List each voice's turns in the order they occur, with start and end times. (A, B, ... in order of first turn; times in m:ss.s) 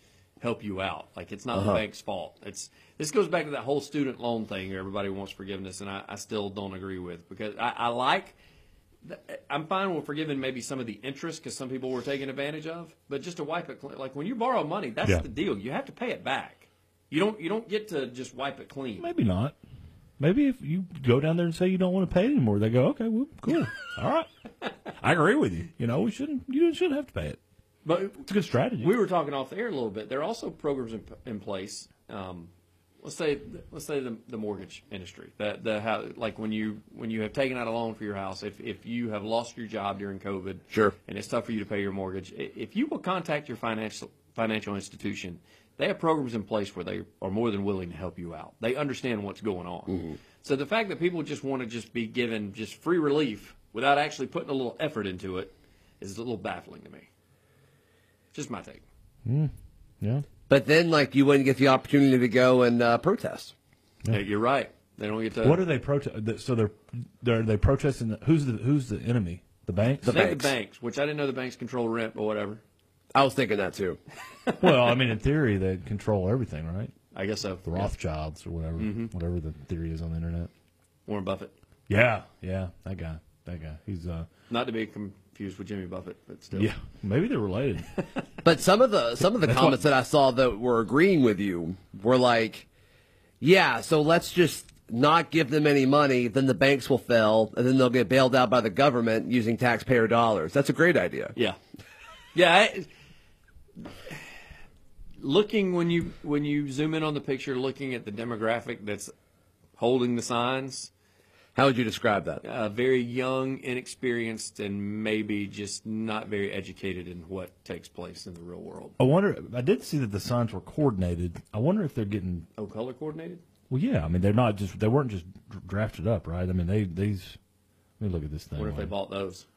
0:00.4-0:08.4 A
0:01.5-0:01.8 B
0:09.0-0:19.1 A
0:19.0-0:19.6 C
0:20.2-0:24.3 C
0:24.9-0:27.4 C
0:27.8-0:57.1 A
0:28.3-0:29.0 C
0:49.9-0:50.2 B
0:58.3-0:58.8 A
0:59.2-1:00.3 C
1:00.5-1:03.5 B
1:04.1-1:05.6 A
1:05.4-1:10.2 C
1:10.0-1:10.5 B
1:10.0-1:12.6 A
1:13.2-1:14.0 B
1:14.6-1:16.9 C
1:17.1-1:17.9 A
1:17.6-1:20.5 C
1:18.8-1:19.1 A
1:21.1-1:21.5 A
1:21.9-1:24.3 C
1:24.5-1:26.7 A
1:26.5-1:27.9 C
1:28.4-1:32.7 B
1:29.4-1:29.8 C
1:33.4-1:41.4 B
1:42.3-1:42.9 A
1:43.8-1:44.2 A
1:45.2-1:49.1 A
1:49.8-1:50.9 A
1:51.6-1:52.4 B
1:52.4-1:59.0 A
1:59.0-2:02.5 C
2:02.6-2:03.4 A
2:03.7-2:07.4 C
2:08.0-2:08.9 C
2:08.6-2:09.4 A